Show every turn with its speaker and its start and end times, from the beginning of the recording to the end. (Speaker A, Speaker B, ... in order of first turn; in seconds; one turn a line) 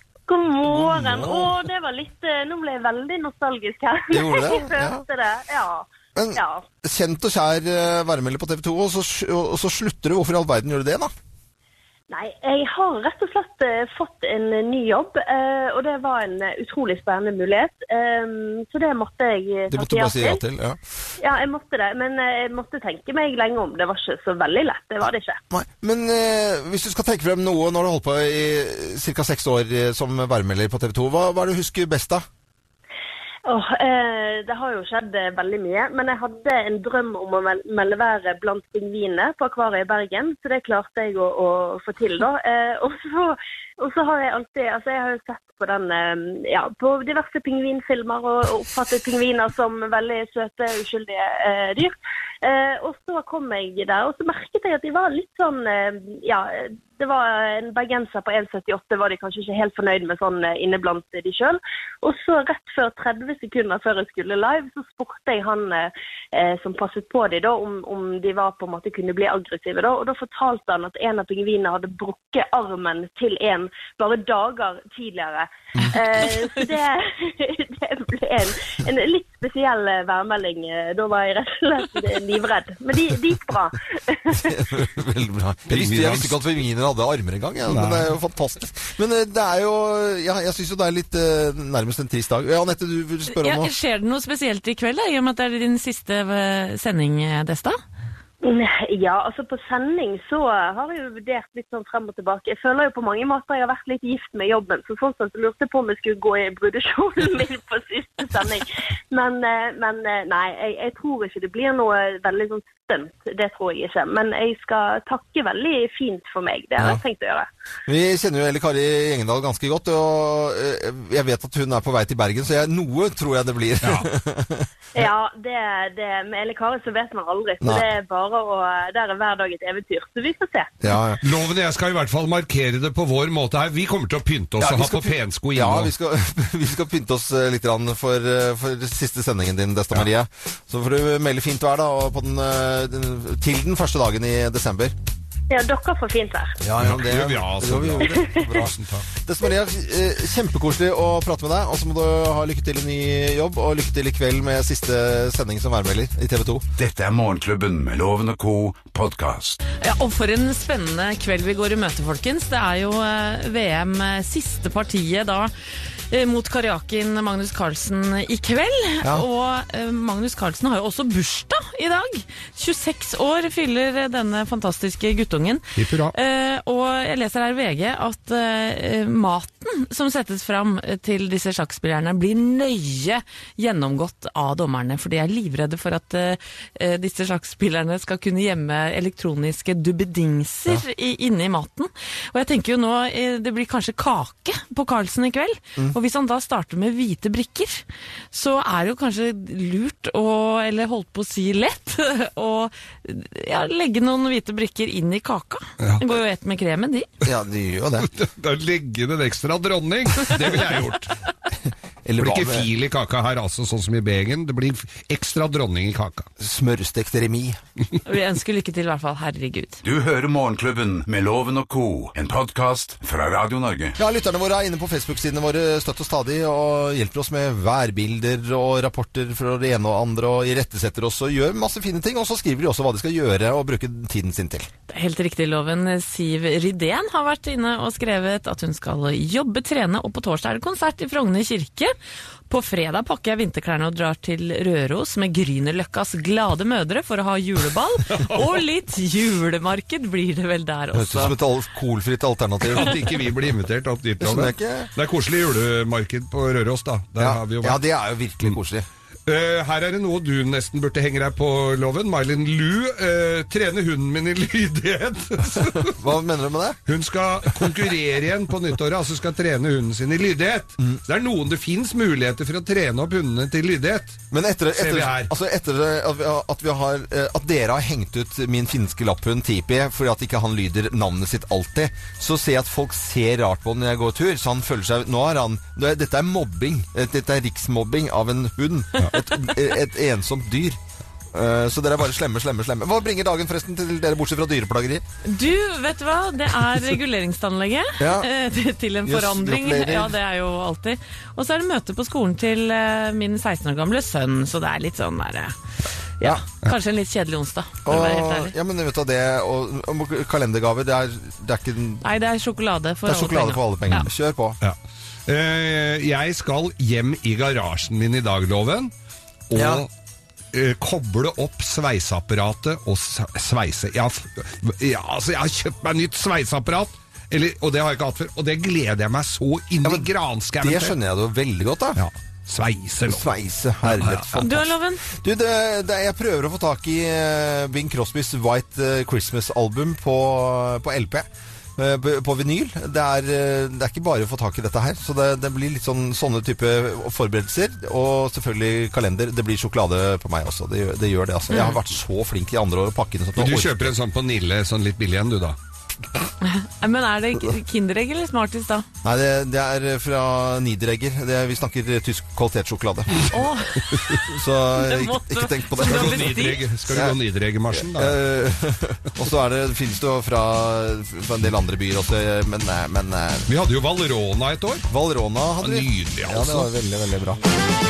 Speaker A: 0.3-6.6
Speaker B: 0.6-1.6
Speaker B: 4.1-5.0
Speaker B: 6.1-11.1
Speaker A: 12.1-20.4
Speaker B: 19.7-20.8
Speaker A: 21.2-25.4
Speaker B: 25.5-32.2
Speaker A: 33.5-84.8
Speaker B: 84.4-93.7
Speaker C: 85.7-86.4
Speaker C: 87.7-88.1
Speaker D: 93.3-97.8
Speaker A: 98.4-117.5
Speaker B: 117.9-125.1
Speaker C: 123.8-124.1
Speaker A: 124.9-130.8
Speaker B: 127.6-127.9
Speaker B: 130.8-131.2
Speaker C: 131.2-135.9
Speaker B: 134.6-144.9
Speaker A: 145.5-146.6
Speaker B: 146.6-156.7
Speaker C: 146.8-149.1
Speaker A: 148.1-148.4
Speaker E: 156.8-159.6
Speaker D: 159.8-165.5
Speaker D: 166.1-207.1
Speaker C: 175.8-176.1
Speaker C: 205.8-206.1
Speaker B: 207.2-208.1
Speaker C: 208.0-211.1
Speaker B: 212.1-212.7
Speaker C: 212.2-216.3
Speaker B: 216.4-217.6
Speaker D: 218.1-219.8
Speaker E: 219.8-224.0
Speaker B: 224.0-234.7
Speaker D: 234.9-241.9
Speaker D: 242.5-251.3
Speaker C: 248.1-248.4
Speaker B: 250.9-253.1
Speaker C: 252.7-257.8
Speaker B: 254.2-254.9
Speaker B: 257.2-258.9
Speaker C: 259.3-265.9
Speaker B: 265.5-266.8
Speaker C: 266.9-274.2
Speaker B: 274.3-290.8
Speaker C: 274.8-275.3
Speaker B: 291.3-295.0
Speaker D: 295.2-305.5
Speaker B: 298.0-298.3
Speaker B: 299.1-300.1
Speaker D: 306.2-308.5
Speaker B: 307.9-312.1
Speaker D: 312.0-314.1
Speaker B: 313.1-314.6
Speaker C: 315.3-318.9
Speaker C: 319.5-319.9
Speaker B: 319.6-319.8
Speaker C: 320.5-330.9
Speaker B: 330.6-332.0
Speaker C: 332.0-333.3
Speaker B: 333.0-353.9
Speaker C: 333.8-334.5
Speaker D: 334.4-335.0
Speaker D: 351.5-351.8
Speaker C: 353.4-355.6
Speaker D: 356.4-358.9
Speaker B: 359.0-363.4
Speaker D: 363.3-363.8
Speaker B: 364.1-367.2
Speaker D: 364.7-366.6
Speaker C: 365.8-368.2
Speaker B: 367.7-373.5
Speaker C: 373.5-374.9
Speaker B: 374.9-377.4
Speaker C: 375.6-376.7